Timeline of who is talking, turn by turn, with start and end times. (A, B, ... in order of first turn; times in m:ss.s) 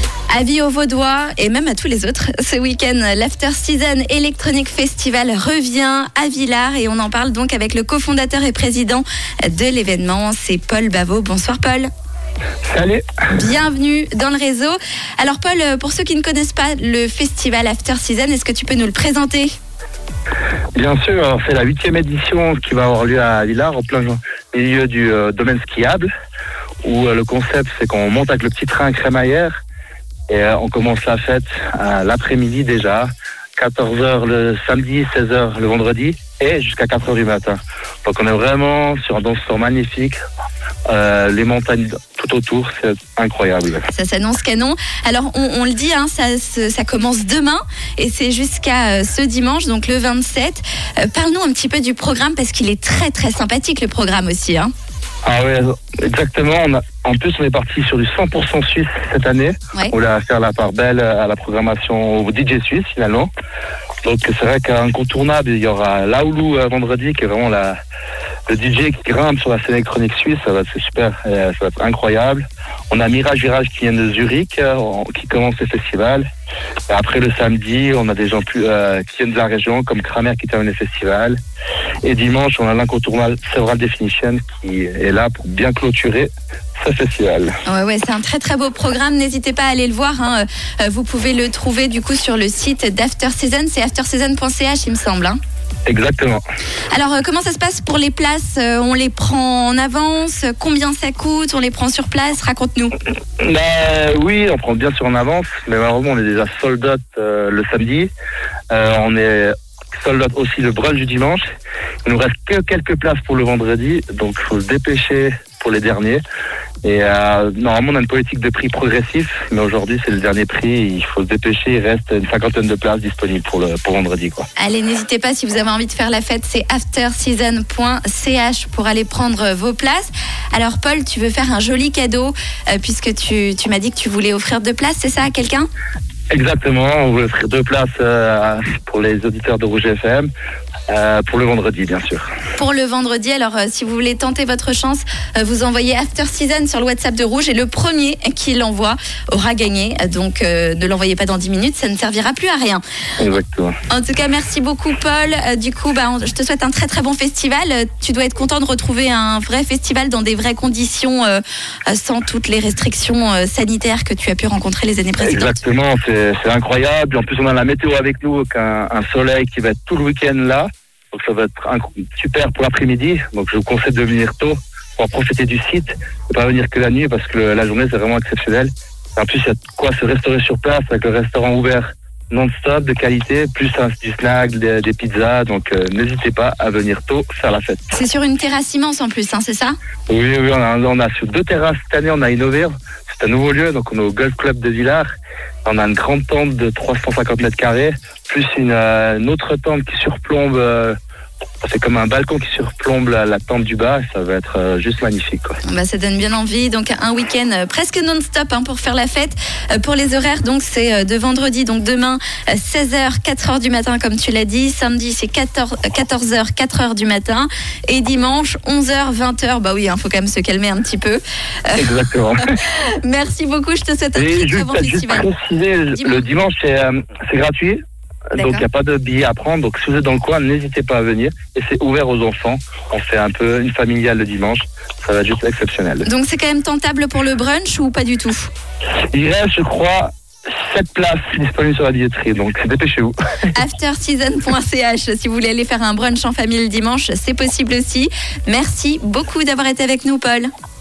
0:00.3-0:11.9 A
0:12.6-0:13.2 B
0:13.3-0:19.5 A
0:20.8-0:26.1 B
0:26.8-0:29.6 B
0:30.3-0:40.2 B
0:40.9-0:43.9 B
0:43.9-0:54.7 A
0:55.2-1:03.3 B
1:04.0-1:07.8 B
1:08.5-1:16.2 B
1:16.9-1:21.4 B
1:22.0-1:27.6 B
1:27.6-1:35.4 A
1:35.8-1:36.4 B
1:36.9-1:42.9 A
1:43.4-1:48.1 B
1:48.7-1:51.4 B
1:52.0-1:56.2 B
1:56.8-2:04.5 B
2:04.6-2:15.7 A
2:16.3-2:20.3 B
2:20.9-2:22.3 B
2:22.5-2:32.8 A
2:33.2-2:33.8 B
2:33.9-2:45.6 A
2:45.2-3:07.9 B
3:07.9-3:09.7 A
3:10.1-3:15.1 B
3:15.6-3:21.0 B
3:21.6-3:25.6 B
3:25.6-3:42.0 A
3:41.8-3:42.4 B
3:42.6-3:45.3 A
3:44.2-3:47.8 B
3:45.9-3:46.2 A
3:48.3-3:56.0 B
3:48.4-3:48.6 A
3:56.0-3:58.5 A
3:59.1-4:03.1 B
4:03.5-4:10.5 A